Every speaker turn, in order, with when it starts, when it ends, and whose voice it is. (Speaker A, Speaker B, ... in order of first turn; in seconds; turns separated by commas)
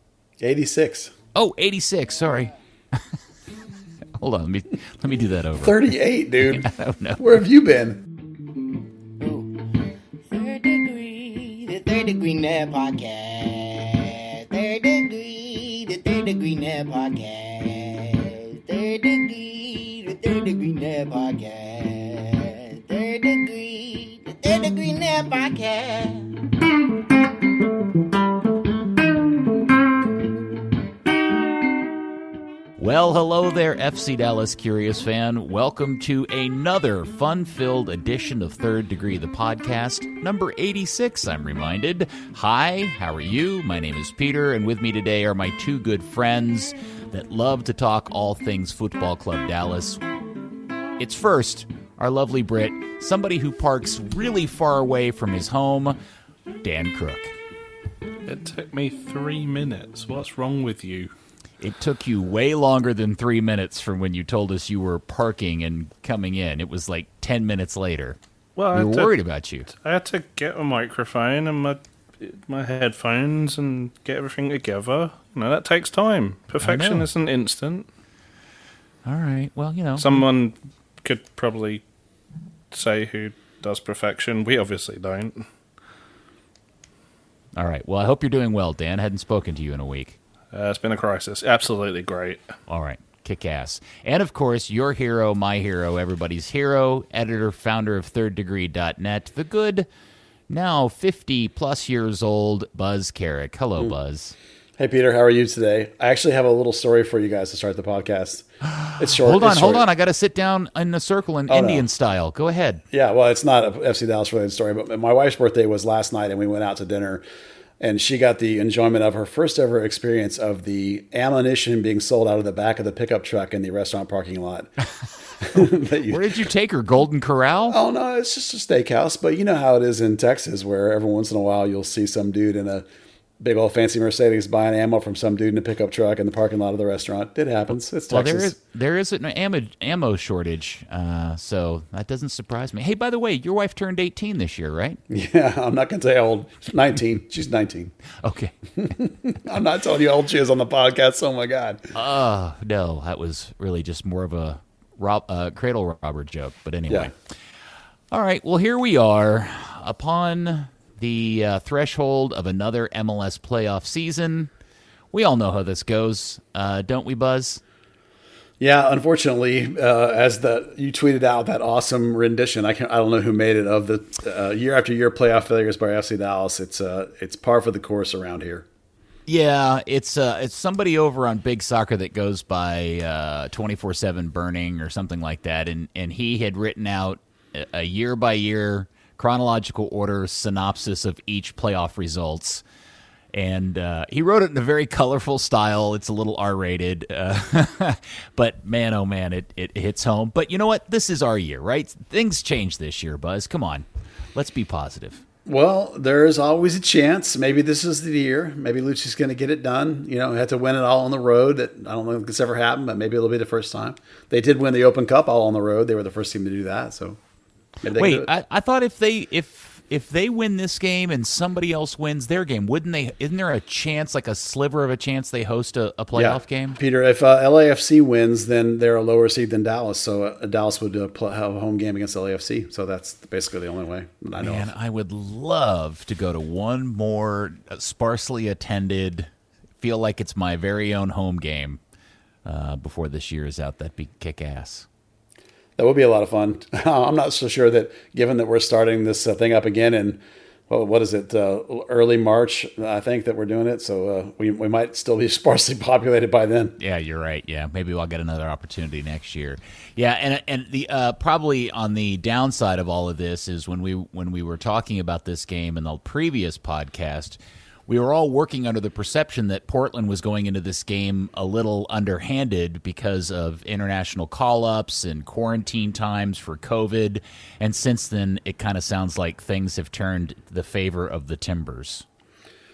Speaker A: 0.4-1.1, Speaker B: 1.4-3.0, Speaker B: 4.2-5.9, Speaker A: 5.6-6.7, Speaker B: 6.4-7.2, Speaker A: 7.2-8.0, Speaker C: 9.2-9.6, Speaker C: 10.3-26.4, Speaker B: 32.8-50.0, Speaker B: 51.0-56.0, Speaker B: 56.6-57.4, Speaker D: 58.3-61.1, Speaker B: 61.6-68.2, Speaker D: 68.6-69.1, Speaker B: 68.7-69.7, Speaker D: 69.8-77.9, Speaker B: 76.6-77.1, Speaker B: 79.0-80.2, Speaker D: 80.0-81.8, Speaker D: 82.7-85.5, Speaker B: 87.6-90.2, Speaker D: 90.5-92.5, Speaker B: 92.7-99.9, Speaker B: 100.5-104.4, Speaker A: 104.8-109.8, Speaker B: 108.7-112.8, Speaker A: 111.5-111.8, Speaker A: 112.9-117.2, Speaker A: 117.8-124.8, Speaker A: 125.4-126.3, Speaker B: 125.6-127.8, Speaker A: 127.7-132.9, Speaker A: 133.4-138.5, Speaker B: 138.1-145.0, Speaker A: 145.1-147.9, Speaker B: 148.2-148.5, Speaker A: 148.8-151.9, Speaker B: 151.9-157.1, Speaker B: 158.1-164.5, Speaker B: 165.1-167.6, Speaker A: 168.6-178.7, Speaker B: 179.3-192.6, Speaker B: 193.3-205.2, Speaker A: 205.5-217.2, Speaker A: 217.8-218.3, Speaker B: 217.9-226.8, Speaker A: 226.2-234.7, Speaker B: 234.4-241.8, Speaker B: 242.4-244.9, Speaker A: 245.8-256.8, Speaker B: 256.8-282.1